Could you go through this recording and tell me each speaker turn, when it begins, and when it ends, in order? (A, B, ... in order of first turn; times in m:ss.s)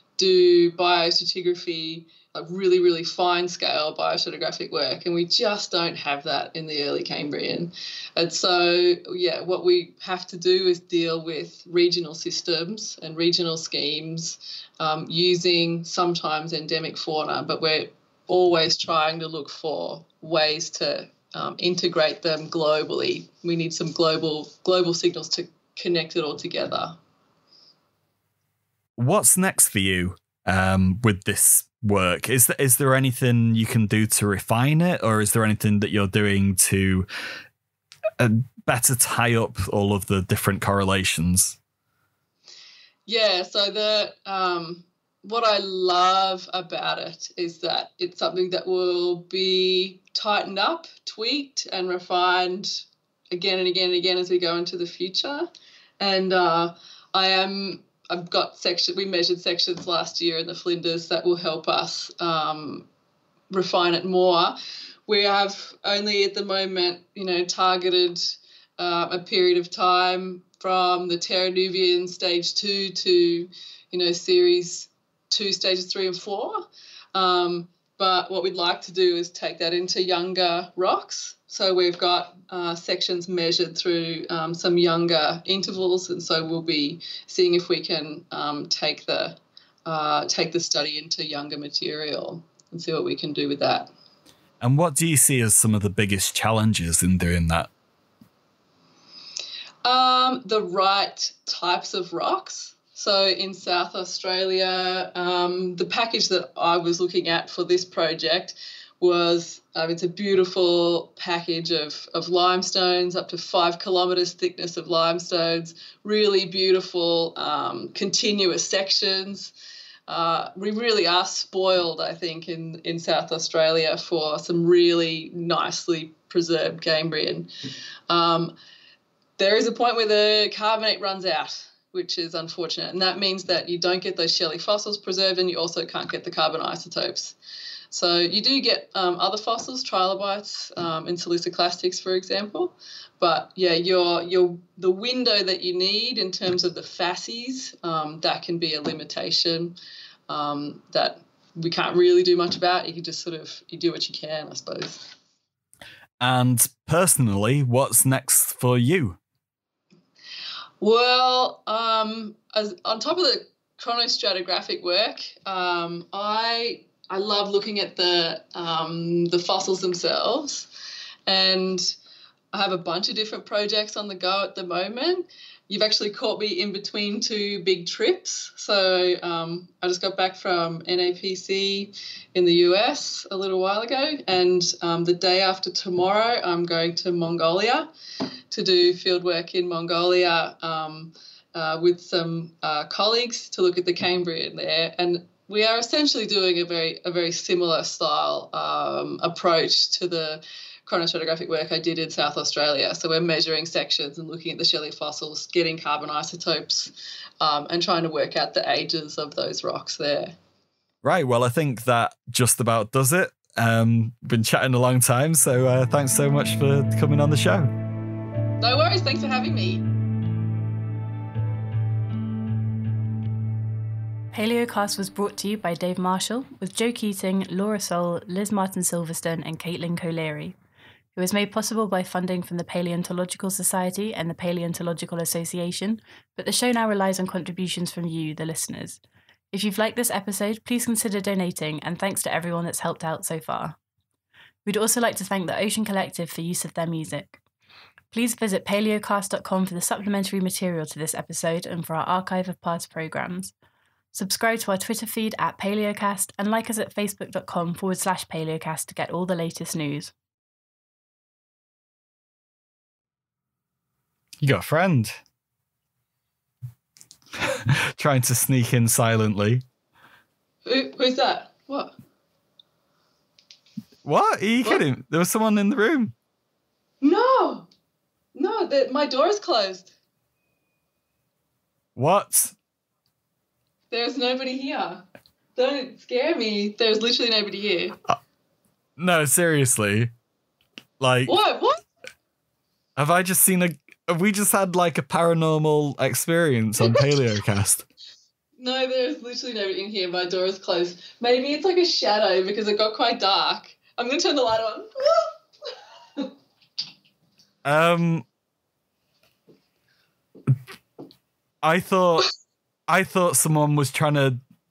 0:00.2-0:27.0 A
0:29.0-0:37.1 B
0:38.2-0:41.6 B
0:43.1-1:02.9 A
1:03.5-1:33.9 A
1:34.6-1:37.7 B
1:39.8-1:59.5 A
2:00.1-2:07.5 A
2:08.1-2:08.5 A
2:09.4-2:17.4 A
2:17.9-2:29.8 A
2:30.3-2:35.1 A
2:36.2-2:39.2 B
2:40.8-2:50.7 A
2:51.3-2:52.0 A
2:52.5-3:07.9 A
3:08.5-3:30.4 A
3:31.0-3:37.7 B
3:38.6-3:39.8 A
3:44.3-3:50.6 C
3:51.2-3:59.0 C
3:59.5-4:03.8 C
4:04.7-4:07.4 C
4:08.1-4:13.5 C
4:14.1-4:20.1 C
4:24.4-4:25.2 B
4:27.7-4:29.6 B
4:30.7-4:32.0 A
4:34.0-4:36.1 B
4:37.0-4:37.7 A
4:38.4-4:39.9 A
4:42.0-4:42.6 B
4:43.9-4:45.0 A
4:45.6-4:48.0 A
4:49.0-4:50.1 B
4:51.0-4:51.4 B
4:51.3-4:51.8 A
4:53.0-4:57.9 B
4:56.8-4:57.2 A
4:58.6-5:05.4 A
5:07.6-5:08.3 B
5:11.6-5:12.3 B
5:12.9-5:14.4 B